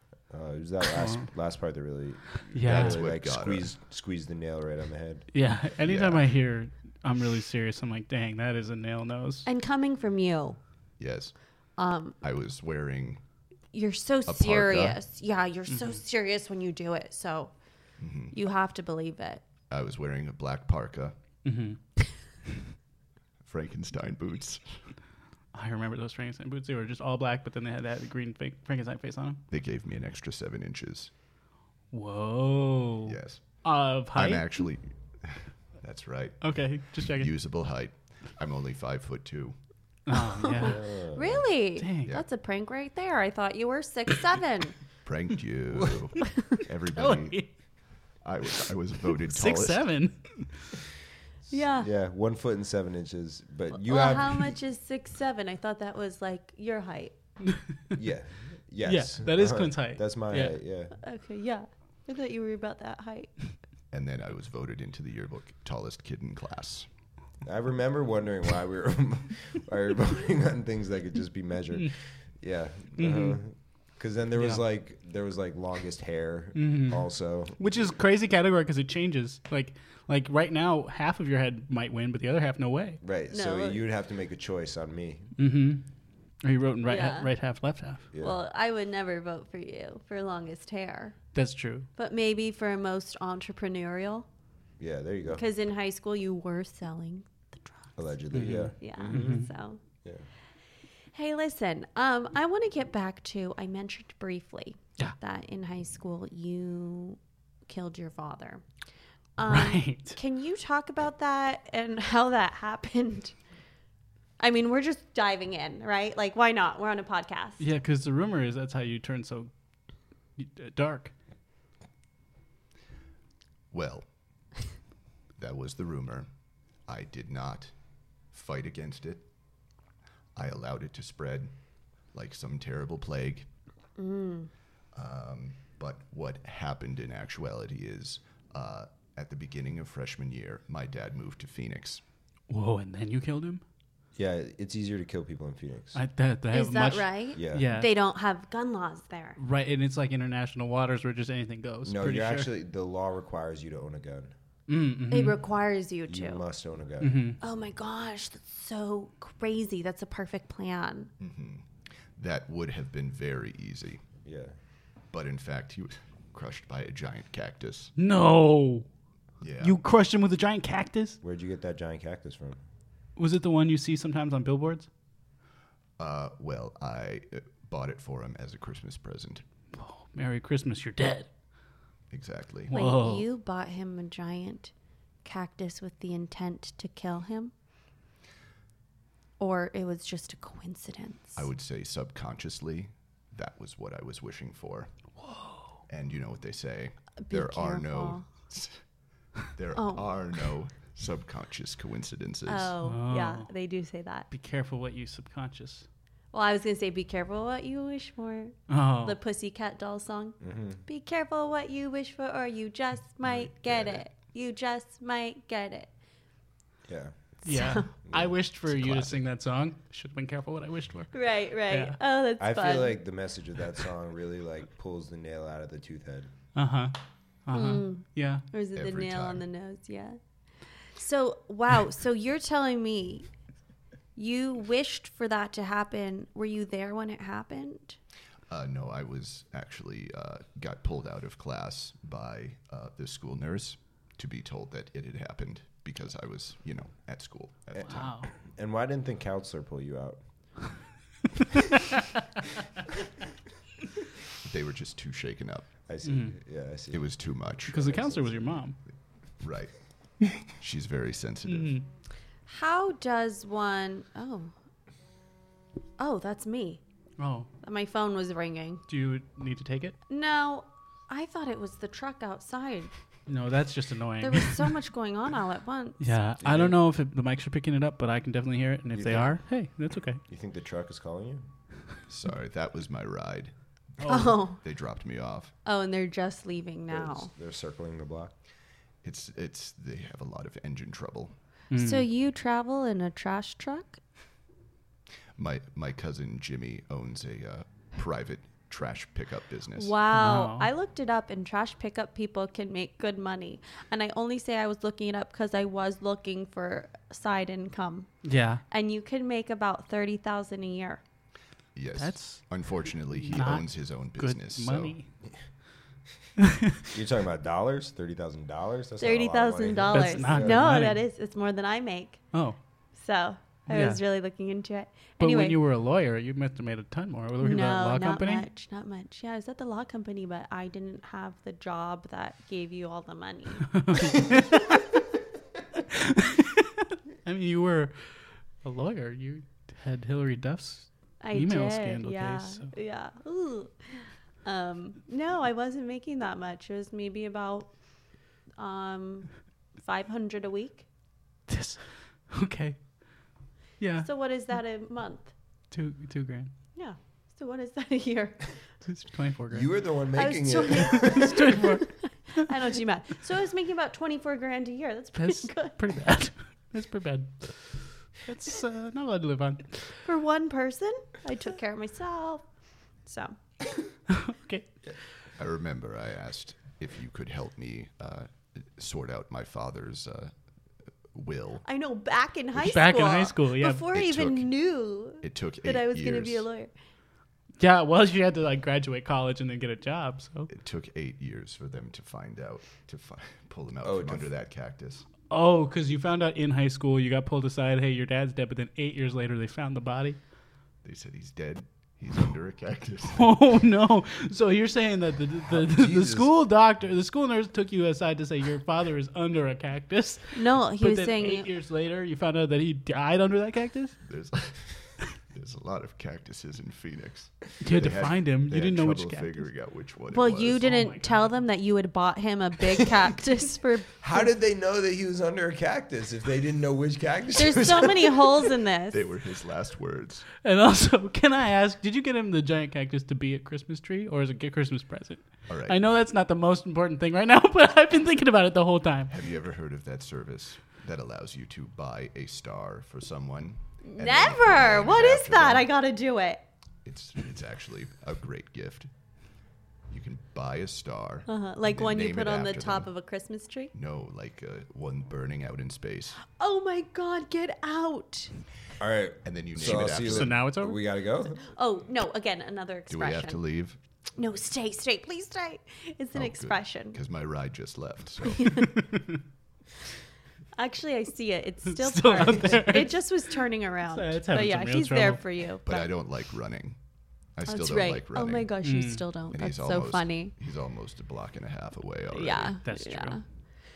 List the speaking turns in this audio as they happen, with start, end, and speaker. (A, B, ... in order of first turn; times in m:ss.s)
0:00.3-0:05.2 A
0:01.0-0:01.3 B
0:02.5-0:03.0 B
0:02.6-0:03.7 C
0:05.3-0:09.5 B
0:05.8-0:06.2 C
0:09.4-0:10.6 D
0:11.0-0:11.4 C
0:11.8-0:12.2 D
0:12.2-0:13.2 C
0:13.7-0:17.5 D
0:14.3-0:15.0 C
0:18.0-0:18.3 C
0:18.3-0:19.4 D
0:19.7-0:21.2 C
0:21.4-0:21.8 B
0:23.4-0:24.8 C
0:25.5-0:29.4 B
0:29.5-0:31.1 C
0:31.9-0:34.4 B
0:33.1-0:33.4 C
0:34.1-0:39.6 C
0:36.4-0:37.3 B
0:40.1-0:40.8 B
0:40.3-0:44.8 D
0:40.6-0:41.5 A
0:41.8-0:42.1 B
0:45.0-0:47.5 C
0:46.9-0:47.5 B
0:48.2-0:49.8 C
0:49.2-0:50.7 B
0:51.5-0:51.9 D
0:51.8-0:54.5 A
0:53.7-0:57.1 D
0:57.9-1:01.0 A
0:58.8-1:00.6 B
1:01.0-1:03.5 D
1:03.9-1:06.9 C
1:07.4-1:17.6 A
1:13.0-1:13.4 B
1:16.5-1:23.0 B
1:23.0-1:25.3 A
1:23.3-1:23.8 D
1:25.4-1:25.8 B
1:26.4-1:28.0 B
1:26.8-1:27.3 D
1:28.1-1:28.4 A
1:28.2-1:31.2 D
1:31.3-1:31.9 B
1:32.0-1:34.3 D
1:34.8-1:35.4 A
1:35.3-1:37.9 D
1:38.0-1:39.4 A
1:38.3-1:39.5 B
1:38.8-1:39.8 D
1:41.1-1:48.6 D
1:49.4-1:53.3 D
1:49.4-1:50.2 B
1:54.4-1:57.6 D
1:57.6-1:59.5 B
2:00.4-2:01.1 B
2:03.7-2:04.0 C
2:05.4-2:06.3 C
2:06.8-2:07.7 C
2:08.3-2:09.2 C
2:10.4-2:11.5 C
2:12.1-2:13.4 C
2:14.0-2:14.5 D
2:14.9-2:22.0 C
2:22.5-2:23.6 B
2:24.1-2:26.0 A
2:25.9-2:27.9 B
2:26.5-2:29.4 D
2:27.3-2:27.7 A
2:29.4-2:32.5 B
2:31.8-2:34.3 A
2:34.7-2:35.4 B
2:35.1-2:36.4 D
2:36.0-2:37.2 A
2:37.0-2:37.4 B
2:37.4-2:41.1 D
2:41.2-2:44.0 C
2:44.2-2:44.5 A
2:45.1-2:47.9 C
2:48.0-2:48.9 B
2:49.4-2:49.8 C
2:49.6-2:51.2 B
2:51.2-2:52.6 A
2:53.2-2:54.9 B
2:56.0-2:59.4 C
2:59.7-3:01.3 B
3:02.1-3:02.7 C
3:02.7-3:03.2 B
3:02.7-3:04.7 D
3:05.2-3:07.5 D
3:09.4-3:11.4 D
3:11.4-3:14.9 C
3:15.2-3:15.7 B
3:15.9-3:18.8 C
3:17.3-3:18.2 D
3:19.4-3:22.7 C
3:19.7-3:20.1 D
3:22.4-3:24.3 D
3:22.8-3:23.5 B
3:24.3-3:25.8 B
3:26.3-3:35.9 D
3:28.7-3:29.2 B
3:30.4-3:30.8 A
3:36.8-3:37.1 A
3:37.4-3:37.9 D
3:37.4-3:41.1 B
3:38.1-3:38.3 A
3:38.6-3:39.2 C
3:41.1-3:42.9 D
3:41.7-3:42.0 B
3:42.4-3:46.3 A
3:46.5-3:46.9 B
3:47.4-3:48.4 B
3:47.5-3:50.2 D
3:48.7-3:49.4 C
3:50.8-3:53.3 D
3:54.1-3:58.0 D
3:58.5-4:08.1 C
4:07.8-4:08.3 B
4:08.4-4:10.2 A
4:14.4-4:15.7 C
4:15.9-4:17.0 A
4:16.0-4:16.3 B
4:16.9-4:18.1 C
4:17.7-4:18.8 B
4:17.9-4:18.4 A
4:18.9-4:21.8 C
4:21.5-4:21.8 B
4:22.4-4:24.5 D
4:26.0-4:26.8 D
4:27.2-4:27.5 B
4:27.6-4:28.8 D
4:28.9-4:30.0 B
4:30.1-4:32.9 D
4:33.3-4:34.7 B
4:34.2-4:36.1 D
4:36.0-4:40.2 B
4:36.4-4:36.8 A
4:38.9-4:39.4 A
4:40.3-4:41.4 A
4:42.1-4:43.5 C
4:44.0-4:44.3 B
4:44.0-4:44.6 D
4:44.1-4:45.5 C
4:45.6-4:47.3 D
4:46.9-4:48.3 A
4:49.0-4:51.3 C
4:51.7-4:52.0 B
4:51.7-4:54.0 D
4:55.4-4:59.9 C
4:59.8-5:08.2 D
5:00.1-5:00.7 B
5:08.2-5:08.6 B
5:08.7-5:11.0 D
5:11.7-5:14.9 C
5:12.0-5:15.1 B
5:16.4-5:16.8 B
5:16.9-5:20.7 A
5:19.0-5:22.3 D
5:19.9-5:21.0 B
5:22.3-5:22.6 B
5:22.9-5:25.6 D
5:23.7-5:24.0 B
5:25.2-5:28.4 B
5:27.4-5:34.3 D
5:33.7-5:34.8 B
5:35.9-5:42.7 B
5:41.2-5:47.8 D
5:48.6-5:50.8 D
5:51.5-5:54.1 B
5:54.0-5:55.3 D
5:55.7-5:56.5 B
5:56.7-5:58.6 D
5:58.8-5:59.7 B
5:59.5-6:01.5 A
6:00.1-6:05.8 D
6:00.7-6:02.5 B
6:05.2-6:10.0 B
6:10.0-6:12.5 D
6:13.0-6:13.4 D
6:14.1-6:14.7 B
6:15.4-6:20.3 C
6:21.1-6:21.6 C
6:21.6-6:26.7 D
6:22.6-6:23.8 B
6:23.9-6:24.5 C
6:25.2-6:26.4 C
6:27.6-6:30.5 B
6:30.5-6:35.0 C
6:33.8-6:34.3 A
6:35.3-6:40.2 B
6:40.8-6:43.3 C
6:43.1-6:54.0 B
6:45.5-6:46.3 A
6:50.3-6:51.5 D
6:54.0-7:00.6 C
6:57.6-6:59.4 B
7:00.1-7:04.3 D
7:00.6-7:01.3 B
7:04.0-7:08.5 A
7:07.3-7:09.0 D
7:08.9-7:10.3 C
7:10.4-7:19.1 B
7:15.5-7:15.8 C
7:19.1-7:25.7 C
7:23.8-7:26.4 D
7:26.8-7:28.9 C
7:29.9-7:32.9 C
7:31.3-7:33.7 D
7:33.7-7:36.2 C
7:36.2-7:38.3 D
7:38.8-7:41.4 A
7:39.2-7:40.4 C
7:39.9-7:40.8 B
7:41.4-7:43.4 D
7:42.9-7:43.8 C
7:44.2-7:47.0 D
7:46.1-7:48.6 C
7:48.3-7:48.7 D
7:48.6-7:49.2 B
7:50.5-7:55.9 D
7:51.6-7:53.1 B
7:53.9-7:55.2 B
7:55.6-7:56.8 C
7:57.3-7:58.5 C
7:57.5-8:00.3 D
7:58.6-7:59.0 B
7:59.3-8:02.6 C
8:02.1-8:03.2 D
8:02.6-8:03.2 B